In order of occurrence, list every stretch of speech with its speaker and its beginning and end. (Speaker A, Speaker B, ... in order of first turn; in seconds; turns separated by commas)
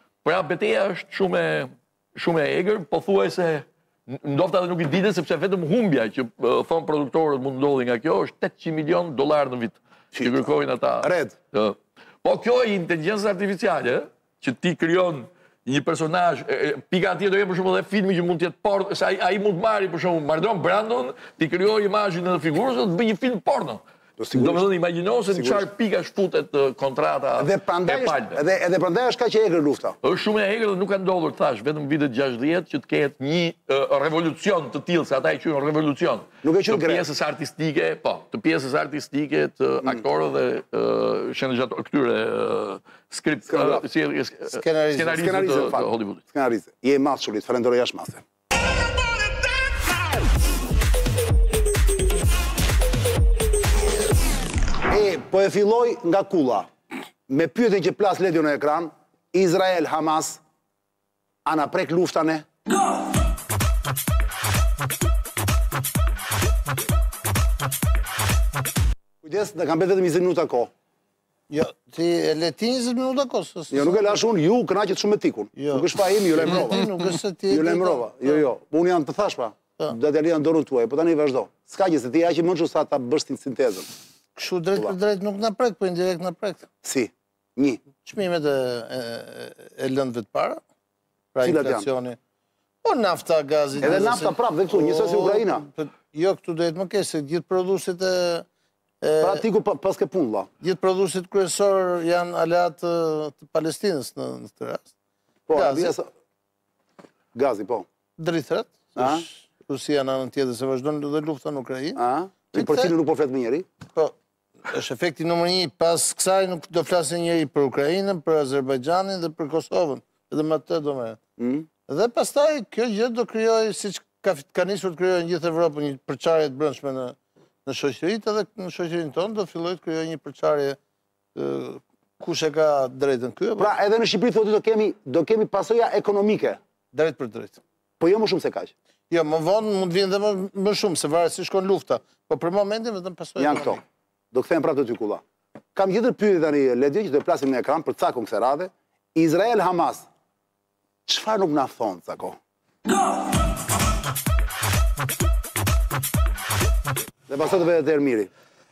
Speaker A: 0.2-23.8, Speaker B: 10.1-10.4, Speaker B: 11.0-11.3, Speaker B: 24.2-24.7, Speaker A: 24.3-28.4, Speaker B: 25.3-25.7, Speaker B: 27.4-30.0, Speaker A: 30.0-46.2, Speaker B: 36.4-37.1, Speaker B: 43.5-43.9, Speaker C: 44.6-45.3, Speaker B: 45.1-48.2, Speaker B: 54.9-56.7, Speaker B: 57.3-60.4, Speaker B: 61.5-62.5, Speaker B: 69.2-70.7, Speaker C: 71.5-74.2, Speaker B: 73.7-83.9, Speaker C: 75.6-78.4, Speaker C: 84.4-86.7, Speaker B: 86.8-87.8, Speaker C: 87.9-90.6, Speaker C: 91.3-92.2, Speaker B: 91.4-91.9, Speaker C: 92.8-98.5, Speaker B: 93.8-95.7, Speaker C: 99.0-99.4, Speaker B: 99.2-100.5, Speaker C: 100.6-104.9, Speaker B: 105.5-106.1, Speaker C: 105.5-106.0, Speaker B: 107.3-107.9, Speaker C: 108.2-112.0, Speaker B: 109.0-109.3, Speaker B: 112.0-113.7, Speaker C: 112.5-112.9, Speaker C: 114.7-121.2, Speaker B: 121.4-121.7, Speaker C: 121.9-130.8, Speaker C: 131.3-133.7, Speaker B: 133.6-136.6, Speaker C: 136.9-137.6, Speaker B: 138.0-138.7, Speaker C: 139.1-143.8, Speaker B: 143.4-145.2, Speaker B: 145.8-150.1, Speaker B: 151.1-152.4, Speaker B: 157.3-158.3